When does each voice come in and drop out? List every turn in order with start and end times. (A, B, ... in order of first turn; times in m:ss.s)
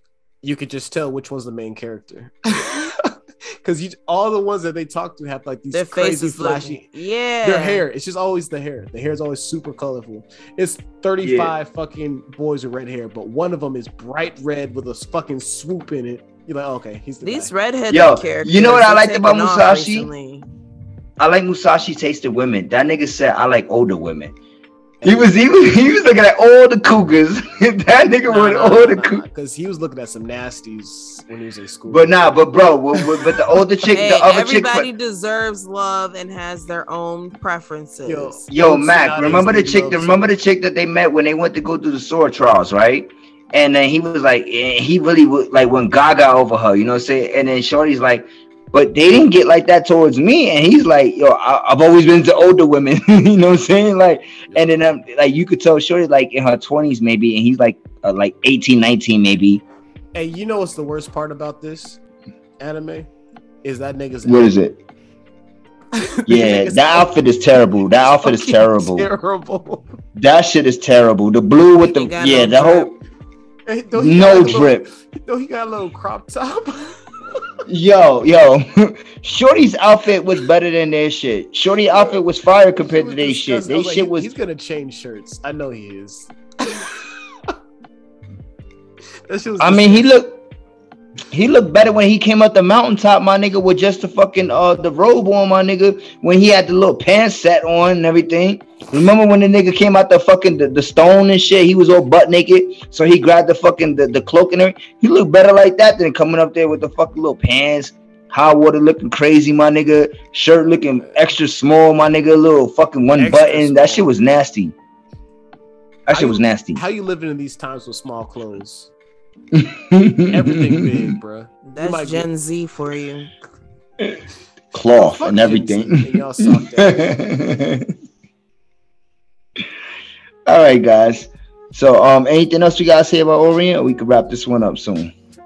0:00.4-0:06.9 A
0:05.7-0:07.8 B
0:07.4-0:17.5 A
0:11.2-0:11.5 C
0:17.2-0:20.4 B
0:17.9-0:20.1 C
0:21.2-0:24.3 C
0:25.0-0:25.4 A
0:25.0-0:29.2 C
0:28.3-0:33.4 A
0:31.9-0:34.9 C
0:33.9-0:38.4 B
0:38.0-0:40.3 A
0:38.5-0:59.6 C
0:54.5-0:54.9 A
1:00.1-1:02.0 A
1:02.6-1:03.1 A
1:03.6-1:04.5 A
1:04.2-1:04.8 C
1:05.9-1:07.1 A
1:06.3-1:09.1 C
1:07.9-1:09.9 A
1:10.2-1:12.9 C
1:11.9-1:12.9 B
1:13.6-1:17.4 A
1:14.0-1:14.9 C
1:17.7-1:24.3 C
1:22.9-1:27.5 A
1:29.2-1:30.1 A
1:29.6-1:30.4 C
1:31.3-1:54.7 C
1:53.1-1:54.1 A
1:56.1-1:56.8 C
1:56.1-1:58.9 A
1:59.5-2:01.1 C
2:00.3-2:02.3 A
2:01.7-2:03.3 B
2:04.7-2:07.9 C
2:04.9-2:07.2 A
2:10.4-2:15.1 C